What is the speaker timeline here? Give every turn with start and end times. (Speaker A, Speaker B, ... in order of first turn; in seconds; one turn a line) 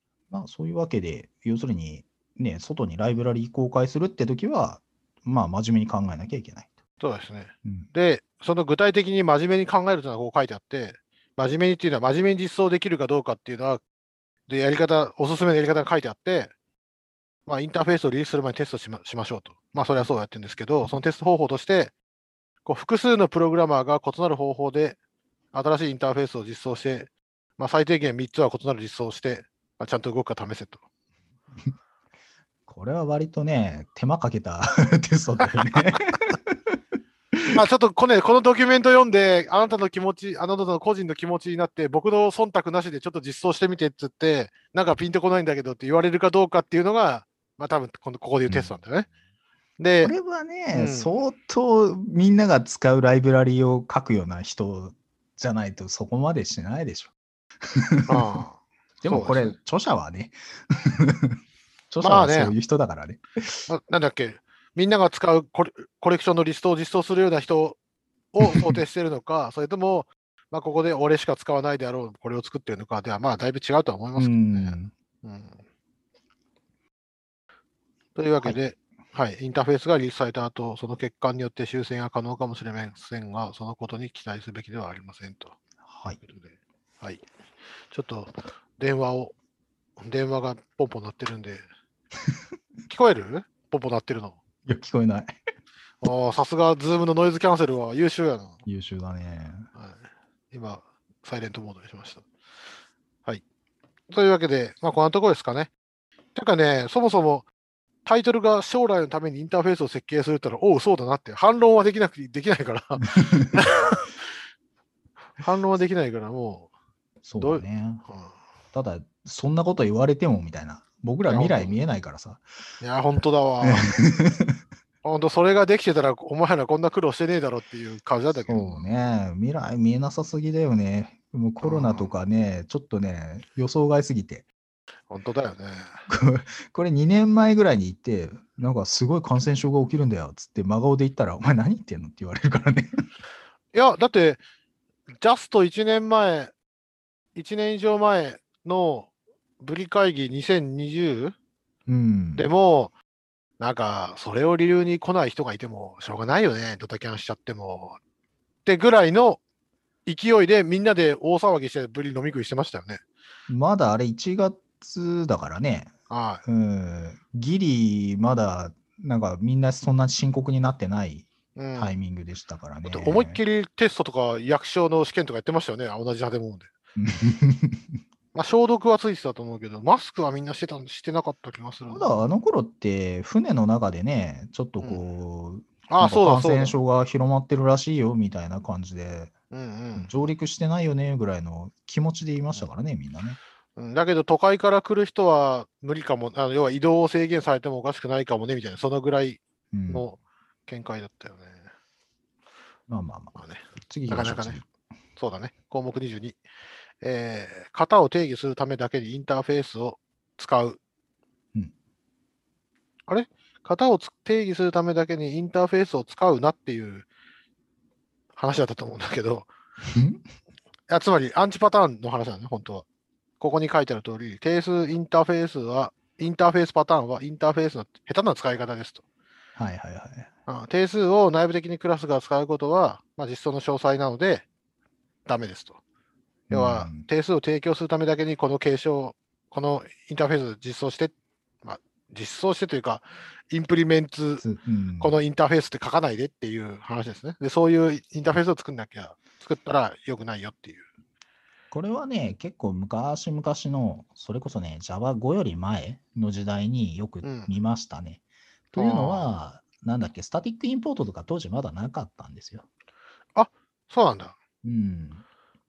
Speaker A: 0.3-6.7
Speaker B: 7.0-13.8
Speaker B: 14.5-16.5
Speaker B: 17.4-21.9
Speaker B: 22.6-25.0
Speaker B: 25.5-30.8
Speaker A: 32.7-36.7
Speaker A: 37.3-37.6
Speaker B: 37.5-49.1
Speaker A: 48.5-48.7
Speaker B: 49.8-50.1
Speaker A: 50.0-57.1
Speaker B: 50.7-51.1
Speaker A: 57.7-58.3
Speaker B: 58.1-59.5
Speaker A: 59.0-61.4
Speaker A: 61.9-63.6
Speaker B: 62.0-62.5
Speaker B: 63.7-67.8
Speaker B: 68.3-75.6
Speaker A: 68.4-68.8
Speaker A: 74.2-74.9
Speaker B: 78.1-85.5
Speaker A: 85.8-86.2
Speaker B: 87.9-89.3
Speaker B: 90.0-91.6
Speaker B: 92.9-94.4
Speaker A: 94.7-95.3
Speaker B: 96.0-98.6
Speaker A: 98.6-99.7
Speaker B: 100.5-102.2
Speaker B: 104.1-105.7
Speaker B: 106.3-107.5
Speaker B: 108.0-114.1
Speaker A: 113.2-113.5
Speaker B: 115.4-116.7
Speaker A: 117.2-118.0
Speaker B: 117.4-118.3
Speaker A: 118.7-122.4
Speaker B: 121.2-121.8
Speaker B: 122.8-124.0
Speaker A: 123.6-124.5
Speaker B: 125.0-128.8
Speaker A: 128.5-134.5
Speaker B: 131.6-132.1
Speaker B: 135.1-136.0
Speaker A: 136.1-142.9
Speaker B: 143.7-144.4
Speaker B: 145.2-146.5
Speaker B: 147.3-149.1
Speaker B: 149.6-151.3
Speaker A: 151.9-152.5
Speaker B: 152.3-152.9
Speaker B: 153.6-158.0
Speaker B: 158.6-159.4
Speaker B: 160.1-163.0
Speaker A: 163.5-165.9
Speaker B: 166.1-166.4
Speaker A: 166.4-173.4
Speaker B: 171.6-171.9
Speaker B: 172.8-176.7
Speaker A: 177.0-177.8
Speaker B: 178.3-182.2
Speaker A: 181.9-189.3
Speaker B: 185.9-186.8
Speaker B: 189.5-190.1
Speaker A: 189.9-193.4
Speaker B: 193.8-201.6
Speaker A: 199.7-200.1
Speaker A: 202.9-204.7
Speaker B: 203.3-204.6
Speaker B: 205.2-206.4
Speaker B: 207.0-210.8
Speaker B: 213.1-217.1
Speaker B: 218.3-219.5
Speaker A: 219.9-220.2
Speaker B: 220.9-222.8
Speaker B: 223.4-229.0
Speaker A: 229.6-230.3
Speaker B: 230.5-234.4
Speaker B: 235.2-235.8
Speaker A: 236.5-237.1
Speaker B: 236.5-244.4
Speaker A: 244.4-245.1
Speaker B: 245.0-250.8
Speaker A: 251.7-258.2
Speaker B: 257.2-257.5
Speaker A: 258.7-262.6
Speaker B: 258.8-259.3
Speaker B: 263.4-264.4
Speaker A: 264.6-265.2